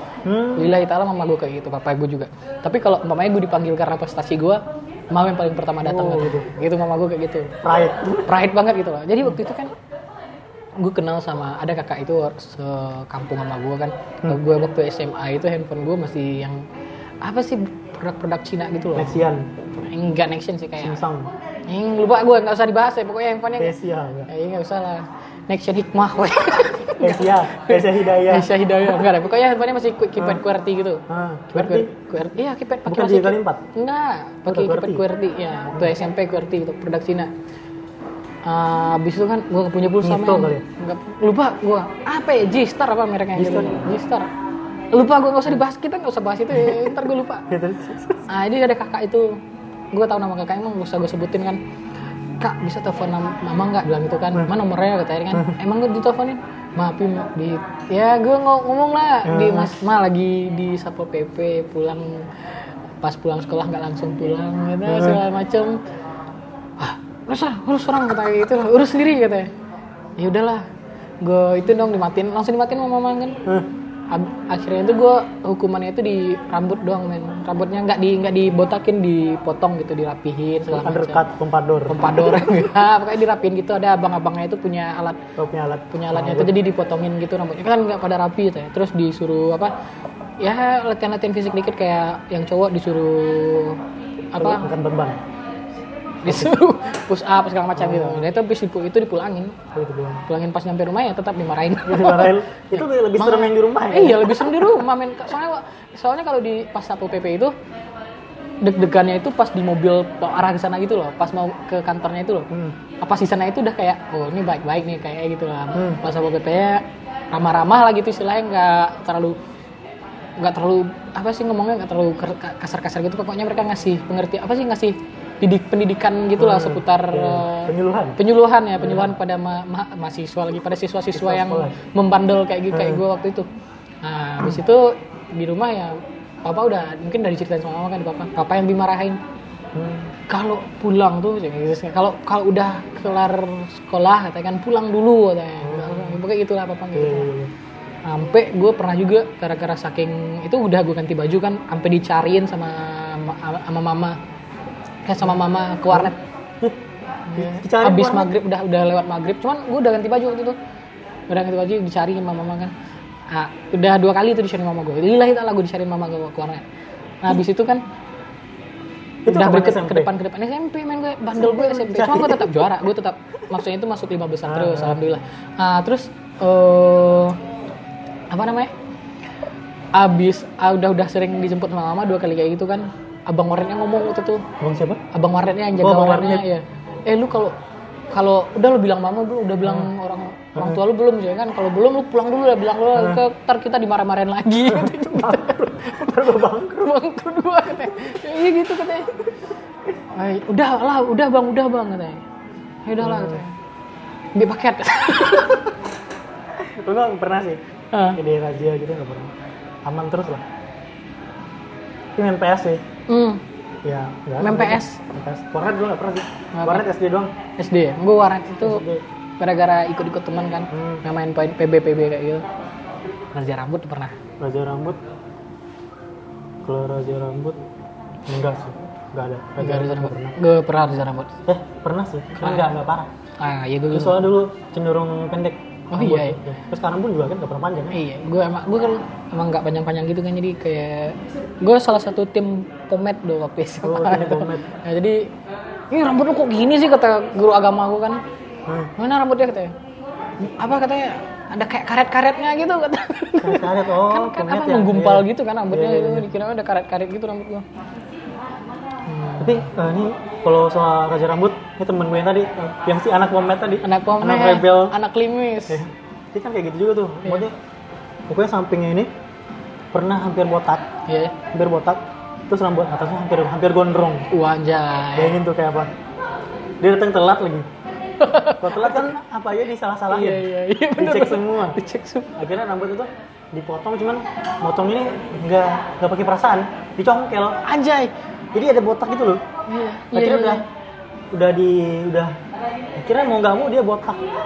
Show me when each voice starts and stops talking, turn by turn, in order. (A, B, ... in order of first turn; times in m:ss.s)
0:00.2-0:00.7 A
0:00.5-0:07.6 B
0:05.8-0:06.5 A
0:07.6-0:08.3 A
0:08.2-0:09.7 B
0:10.8-0:16.6 B
0:17.2-0:19.2 B
0:18.9-0:19.5 A
0:19.9-0:21.0 B
0:20.8-0:21.3 A
0:21.7-0:23.7 B
0:23.6-0:24.3 A
0:24.3-0:37.3 B
0:27.0-0:29.1 A
0:31.1-0:31.9 A
0:32.8-0:33.6 A
0:34.5-0:35.0 A
0:38.4-0:44.3 B
0:40.0-0:40.6 A
0:43.3-0:43.8 A
0:44.9-0:47.4 B
0:46.5-0:48.3 A
0:48.3-0:49.4 B
0:49.9-0:51.6 B
0:52.4-1:02.4 B
0:59.2-0:59.8 A
1:03.0-1:05.8 B
1:04.8-1:05.2 A
1:06.8-1:09.5 B
1:10.2-1:10.6 B
1:11.2-1:13.4 B
1:14.1-1:21.2 B
1:20.6-1:22.6 A
1:21.9-1:25.2 B
1:25.4-1:26.6 A
1:25.9-1:29.7 B
1:30.4-1:33.8 B
1:34.3-1:34.7 B
1:34.4-1:35.2 A
1:36.2-1:39.6 B
1:36.2-1:36.6 A
1:37.7-1:38.3 A
1:39.7-1:40.2 A
1:40.3-1:47.5 B
1:41.8-1:44.7 A
1:48.6-1:52.5 B
1:52.5-1:52.8 A
1:53.0-1:59.4 B
1:55.7-1:56.0 A
2:00.4-2:13.5 B
2:06.4-2:08.2 A
2:08.8-2:09.1 A
2:11.1-2:11.8 A
2:12.7-2:13.0 A
2:14.0-2:19.2 B
2:19.7-2:20.1 A
2:20.3-2:27.3 B
2:25.6-2:26.2 A
2:26.9-2:27.5 A
2:28.0-2:34.2 B
2:35.0-2:36.2 B
2:35.9-2:36.8 A
2:37.3-2:40.6 B
2:37.3-2:38.3 A
2:41.3-2:42.7 B
2:43.3-2:46.6 B
2:47.2-2:47.8 B
2:49.2-2:50.1 A
2:49.3-2:57.4 B
2:51.4-2:52.7 A
2:54.4-2:55.0 A
2:58.3-2:58.7 B
2:59.9-3:04.5 B
3:04.6-3:05.0 A
3:05.1-3:07.6 B
3:05.8-3:06.4 A
3:08.1-3:19.2 B
3:09.6-3:09.9 A
3:10.6-3:10.8 A
3:12.9-3:13.2 A
3:14.6-3:16.9 A
3:20.0-3:22.2 B
3:22.8-3:23.5 B
3:23.0-3:23.4 A
3:24.3-3:25.7 B
3:26.6-3:27.6 A
3:27.9-3:28.2 B
3:28.1-3:29.3 A
3:29.8-3:30.4 A
3:32.2-3:32.8 A
3:33.1-3:33.4 B
3:33.8-3:37.3 A
3:34.4-3:35.0 B
3:36.5-3:36.8 B
3:37.6-3:38.8 B
3:38.6-3:39.0 A
3:39.4-3:42.4 B
3:40.7-3:41.0 A
3:43.3-3:44.2 B
3:44.4-3:45.0 A
3:46.6-3:47.6 A
3:48.3-3:50.4 A
3:49.6-3:51.3 B
3:51.4-3:53.1 A
3:52.4-3:52.7 B
3:53.4-3:54.3 B
3:53.9-3:58.0 A
3:55.9-3:56.4 B
3:57.9-4:05.3 B
4:03.8-4:04.7 A
4:05.9-4:08.2 B
4:08.6-4:08.9 A
4:09.0-4:09.7 B
4:10.4-4:17.6 B
4:13.4-4:16.3 A
4:19.1-4:19.6 B
4:19.4-4:24.9 A
4:23.8-4:25.8 B
4:25.7-4:27.6 A
4:28.3-4:29.1 A
4:29.9-4:30.9 A
4:31.1-4:31.4 B
4:31.5-4:34.3 A
4:34.3-4:35.4 B
4:35.2-4:35.9 A
4:36.8-4:37.7 A
4:38.2-4:39.1 B
4:38.6-4:41.8 A
4:40.1-4:42.4 B
4:42.4-4:47.9 A
4:47.8-4:48.1 B
4:48.5-4:49.4 A
4:49.7-4:50.6 B
4:50.1-4:50.6 A
4:51.3-4:52.4 A
4:53.0-4:54.3 A